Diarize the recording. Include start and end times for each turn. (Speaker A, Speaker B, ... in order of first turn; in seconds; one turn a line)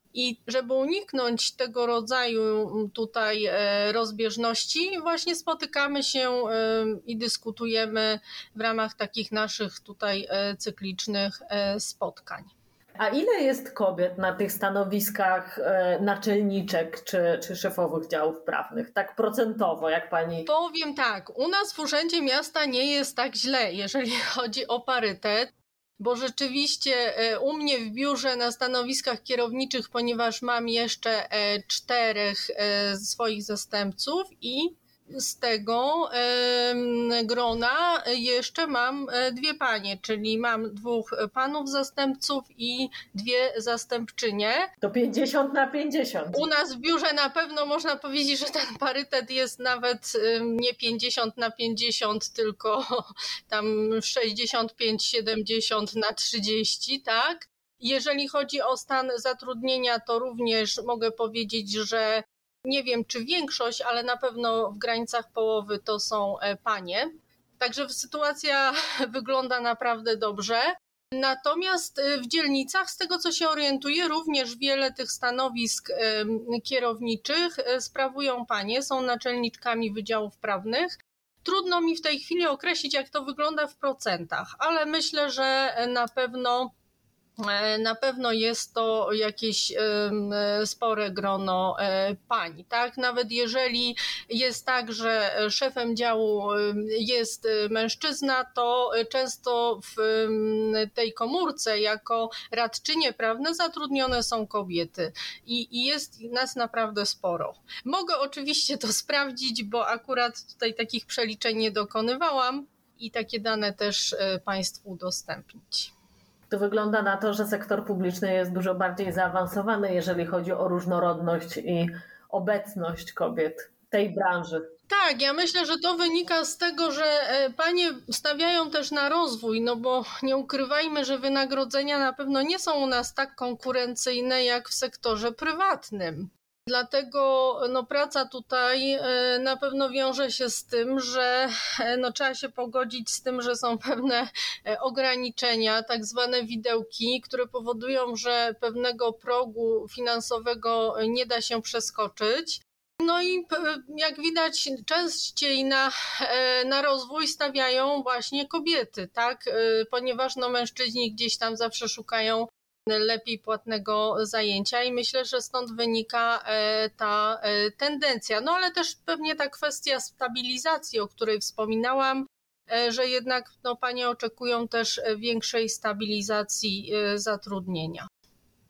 Speaker A: 0.1-12.5
Speaker B: 13.0-20.5
Speaker A: 20.5-44.7
Speaker B: 44.8-46.4
Speaker A: 46.3-86.7
Speaker A: 87.4-115.9
Speaker B: 116.5-124.7
Speaker A: 124.9-178.1